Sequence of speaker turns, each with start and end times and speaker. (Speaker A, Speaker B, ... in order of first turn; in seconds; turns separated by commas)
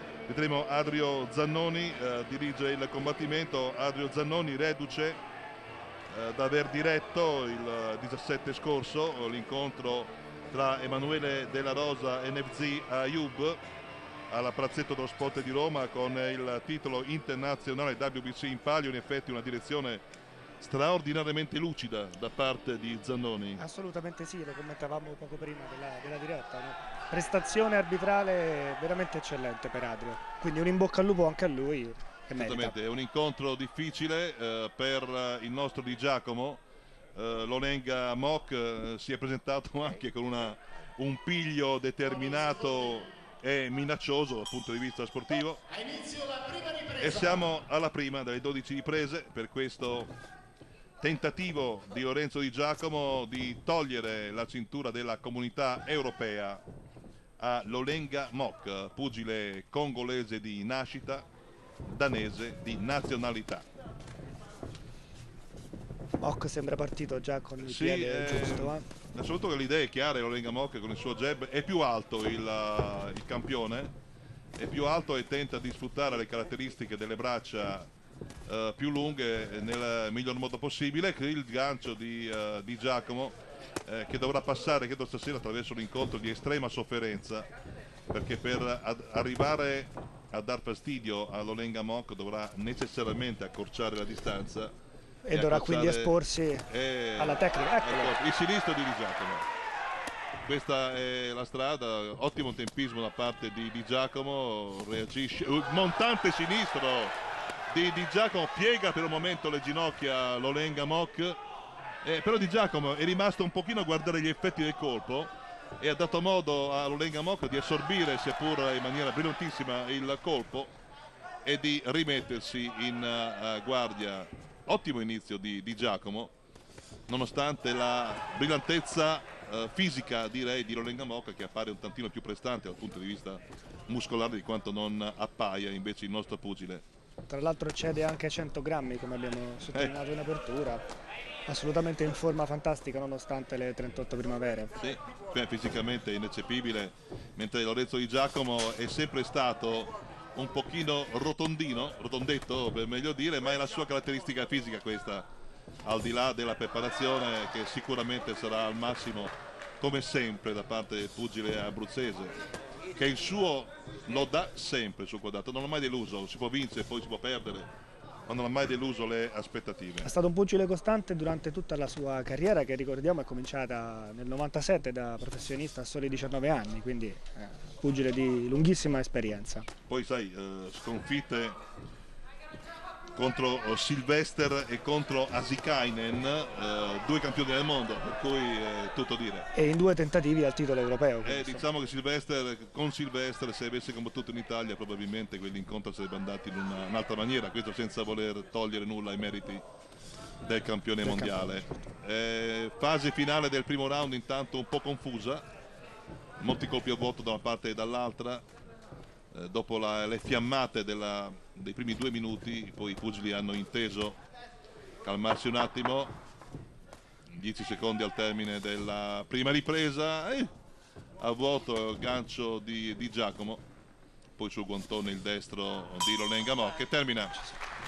Speaker A: 0.3-5.2, Speaker A: 6.1-13.6, Speaker A: 14.3-20.0, Speaker A: 20.6-23.6, Speaker B: 23.6-32.8, Speaker A: 32.4-36.6, Speaker A: 37.1-45.7, Speaker A: 46.9-50.1, Speaker A: 51.0-56.6, Speaker A: 57.4-61.2, Speaker A: 61.9-63.6, Speaker B: 66.2-68.8, Speaker A: 67.6-73.9, Speaker A: 74.6-77.9, Speaker A: 78.5-83.3, Speaker A: 83.8-87.5, Speaker A: 88.1-94.7, Speaker B: 95.2-98.2, Speaker A: 95.3-96.1, Speaker A: 96.7-99.5, Speaker A: 100.4-107.1, Speaker A: 107.7-111.4, Speaker A: 112.0-120.7, Speaker A: 121.4-126.3, Speaker A: 127.1-136.8, Speaker B: 137.3-140.8, Speaker B: 141.5-144.7, Speaker A: 144.8-155.3, Speaker A: 155.8-162.4, Speaker A: 162.9-167.7, Speaker A: 168.3-170.1, Speaker B: 170.0-179.7, Speaker A: 179.9-181.6, Speaker A: 183.2-189.5, Speaker B: 189.5-191.7, Speaker A: 191.2-199.6, Speaker A: 200.4-205.5, Speaker B: 201.0-201.6, Speaker A: 206.4-208.4, Speaker A: 209.3-214.2, Speaker A: 215.0-216.1, Speaker A: 217.3-220.5, Speaker A: 221.2-223.6, Speaker A: 224.4-227.3